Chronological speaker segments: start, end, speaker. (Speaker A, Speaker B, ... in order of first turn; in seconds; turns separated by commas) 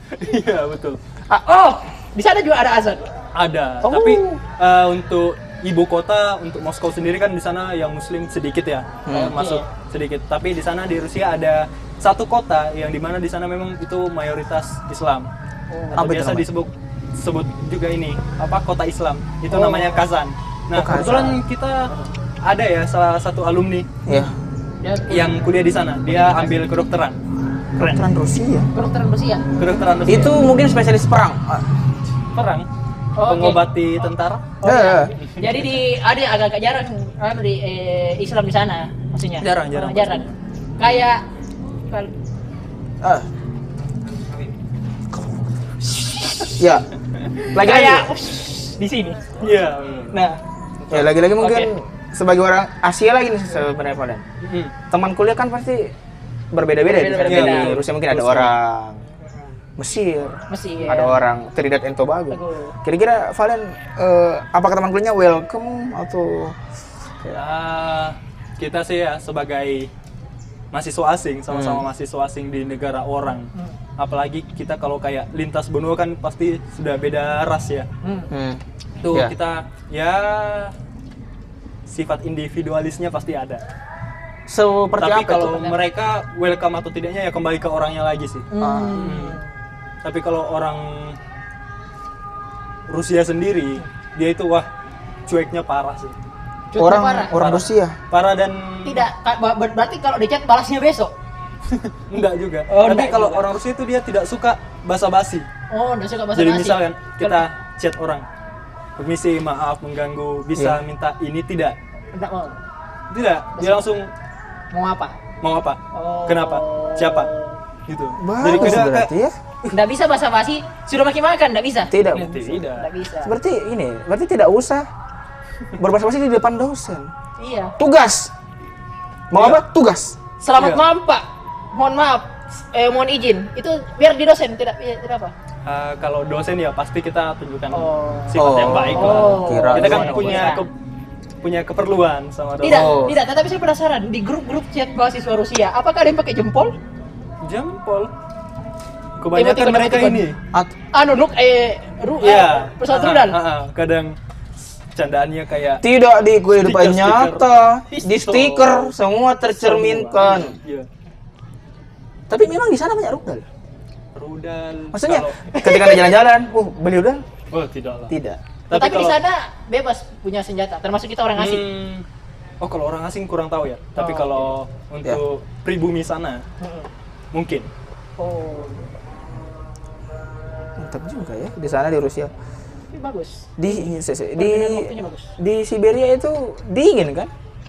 Speaker A: 0.1-1.0, Speaker B: 1.4-3.1, Speaker A: 3.4-15.3, Speaker B: 3.8-4.2, Speaker C: 9.1-9.3, Speaker B: 9.1-9.6, Speaker B: 15.7-16.0, Speaker C: 15.9-16.5, Speaker A: 15.9-21.9, Speaker B: 19.5-20.0, Speaker C: 20.7-21.4, Speaker B: 20.9-21.3, Speaker A: 22.4-23.9, Speaker C: 24.1-24.3, Speaker B: 24.8-25.4, Speaker A: 25.1-27.2, Speaker B: 26.1-26.5, Speaker A: 27.8-28.0, Speaker C: 27.8-28.7, Speaker B: 28.7-29.5, Speaker A: 29.5-30.4, Speaker C: 30.1-31.7, Speaker A: 32.3-32.7, Speaker B: 33.2-33.6, Speaker A: 33.3-34.5, Speaker B: 34.6-40.2, Speaker C: 34.6-35.1, Speaker A: 35.2-35.5, Speaker A: 39.4-40.3, Speaker B: 40.8-41.2, Speaker C: 43.0-43.3, Speaker B: 45.9-46.6, Speaker C: 46.6-46.9, Speaker B: 47.4-49.3, Speaker C: 47.5-48.1, Speaker A: 49.4-50.2, Speaker B: 50.1-50.4, Speaker C: 50.9-54.2, Speaker B: 51.4-51.7, Speaker A: 54.4-54.7, Speaker C: 54.9-55.9, Speaker C: 56.5-59.0, Speaker B: 56.9-57.8, Speaker A: 57.2-58.5, Speaker C: 59.8-66.6, Speaker B: 60.5-61.2, Speaker B: 62.3-62.7, Speaker A: 67.3-69.9, Speaker A: 70.7-77.9, Speaker C: 71.5-71.8, Speaker B: 78.0-78.3, Speaker C: 78.3-79.3, Speaker A: 79.0-80.7, Speaker A: 81.9-83.6, Speaker C: 84.5-85.7, Speaker A: 85.0-89.4, Speaker B: 88.5-89.5, Speaker C: 88.6-89.1, Speaker A: 90.0-91.2, Speaker A: 92.9-94.7, Speaker A: 95.3-96.1, Speaker B: 96.7-97.3, Speaker C: 96.8-98.0, Speaker A: 97.3-99.1, Speaker B: 98.8-101.1, Speaker A: 101.7-105.5, Speaker B: 102.7-103.4, Speaker B: 105.7-107.4, Speaker A: 106.3-108.2, Speaker A: 109.0-111.8, Speaker C: 110.5-110.8, Speaker B: 112.1-112.6, Speaker A: 113.1-114.1, Speaker B: 114.7-115.2, Speaker A: 115.4-117.3, Speaker B: 115.9-117.5, Speaker A: 117.9-119.1, Speaker C: 118.2-119.3, Speaker B: 119.7-123.3, Speaker C: 121.9-122.6, Speaker A: 122.1-122.9, Speaker C: 123.2-124.8, Speaker C: 125.8-127.1, Speaker B: 127.4-127.8, Speaker C: 127.8-128.3, Speaker C: 129.3-130.2, Speaker A: 129.3-129.6, Speaker B: 130.4-135.3, Speaker A: 130.6-130.8, Speaker A: 135.6-140.7, Speaker B: 137.7-140.7, Speaker C: 138.3-140.5, Speaker A: 141.4-142.9, Speaker B: 142.6-146.8, Speaker C: 142.6-143.2, Speaker A: 147.4-148.1, Speaker A: 149.2-150.4, Speaker B: 149.3-150.2, Speaker B: 150.9-153.4, Speaker A: 152.2-154.2, Speaker A: 154.9-155.8, Speaker C: 155.8-160.6, Speaker A: 156.6-157.4, Speaker B: 157.9-158.6, Speaker A: 158.3-158.9, Speaker A: 159.5-160.9, Speaker C: 162.3-163.5, Speaker A: 164.1-165.4, Speaker C: 164.9-167.2, Speaker B: 165.4-166.1, Speaker A: 167.5-168.1, Speaker C: 168.1-168.4, Speaker A: 168.7-169.2, Speaker B: 168.7-171.7, Speaker A: 171.4-172.0, Speaker A: 172.6-176.4, Speaker B: 174.0-174.5, Speaker B: 176.6-176.9, Speaker A: 177.3-177.7, Speaker B: 178.2-178.8, Speaker C: 180.8-182.3, Speaker B: 182.9-185.3, Speaker C: 183.6-187.3